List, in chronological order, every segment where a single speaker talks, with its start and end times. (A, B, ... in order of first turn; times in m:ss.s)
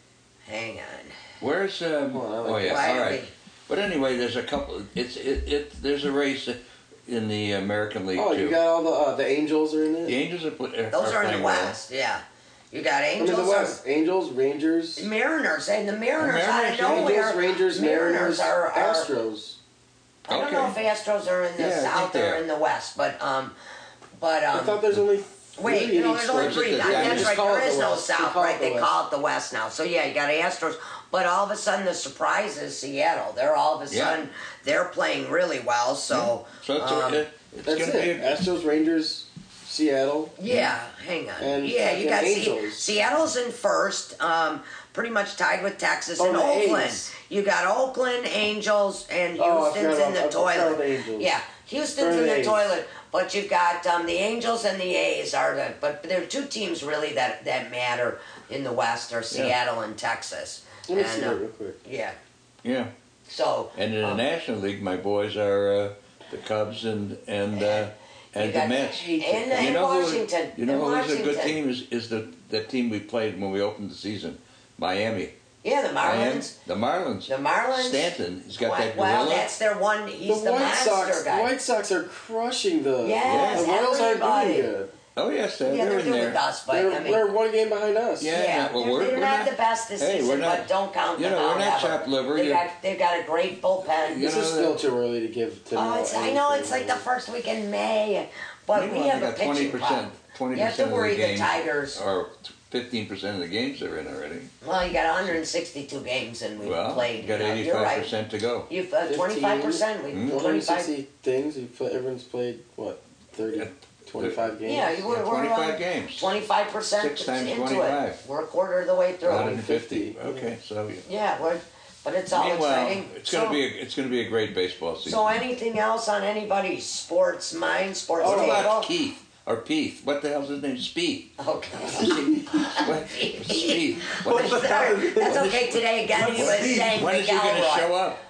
0:00.5-0:01.2 A
0:01.4-0:08.6 B
0:02.1-0:03.0 C
0:02.6-0:03.3 A
0:08.2-0:10.2 C
0:10.1-0:11.8 B
0:10.9-0:13.8 A
0:13.2-0:15.1 C
0:15.0-0:19.1 A
0:16.2-0:17.2 B
0:16.8-0:19.6 C
0:20.3-0:23.6 A
0:20.3-0:20.8 B
0:21.6-0:22.4 B
0:24.2-0:24.8 A
0:24.5-0:28.9 C
0:25.6-0:37.2 A
0:26.3-0:27.4 B
0:33.9-0:34.2 B
0:36.1-0:38.4 B
0:37.6-0:40.4 C
0:40.4-1:02.2 A
0:41.4-0:43.0 C
0:46.2-0:47.0 C
0:49.4-0:51.3 C
0:52.0-0:52.7 C
1:00.9-1:01.8 C
1:02.6-1:02.9 B
1:03.3-1:04.2 A
1:03.8-1:15.3 B
1:07.5-1:11.6 A
1:15.6-1:16.6 A
1:16.0-1:19.5 B
1:17.3-1:21.5 A
1:20.3-1:24.9 C
1:23.0-1:24.7 A
1:23.2-1:23.8 B
1:25.2-1:26.4 B
1:25.6-1:27.3 A
1:26.7-1:28.3 C
1:28.2-1:32.6 B
1:28.3-1:34.2 A
1:33.8-1:34.8 B
1:34.2-1:37.0 C
1:35.8-1:42.0 A
1:38.7-1:44.5 B
1:44.6-1:48.1 A
1:46.6-1:48.7 B
1:48.7-1:50.9 A
1:49.1-1:55.0 C
1:50.1-1:50.4 B
1:53.5-1:56.3 B
1:54.6-1:59.6 A
1:57.0-1:58.2 B
1:59.2-2:01.0 B
1:59.3-2:00.5 C
2:01.1-2:03.6 A
2:02.3-2:05.3 B
2:05.1-2:08.9 A
2:08.2-2:08.7 C
2:08.2-2:14.2 B
2:11.4-2:17.9 A
2:12.0-2:12.7 C
2:14.2-2:16.8 C
2:16.1-2:18.2 B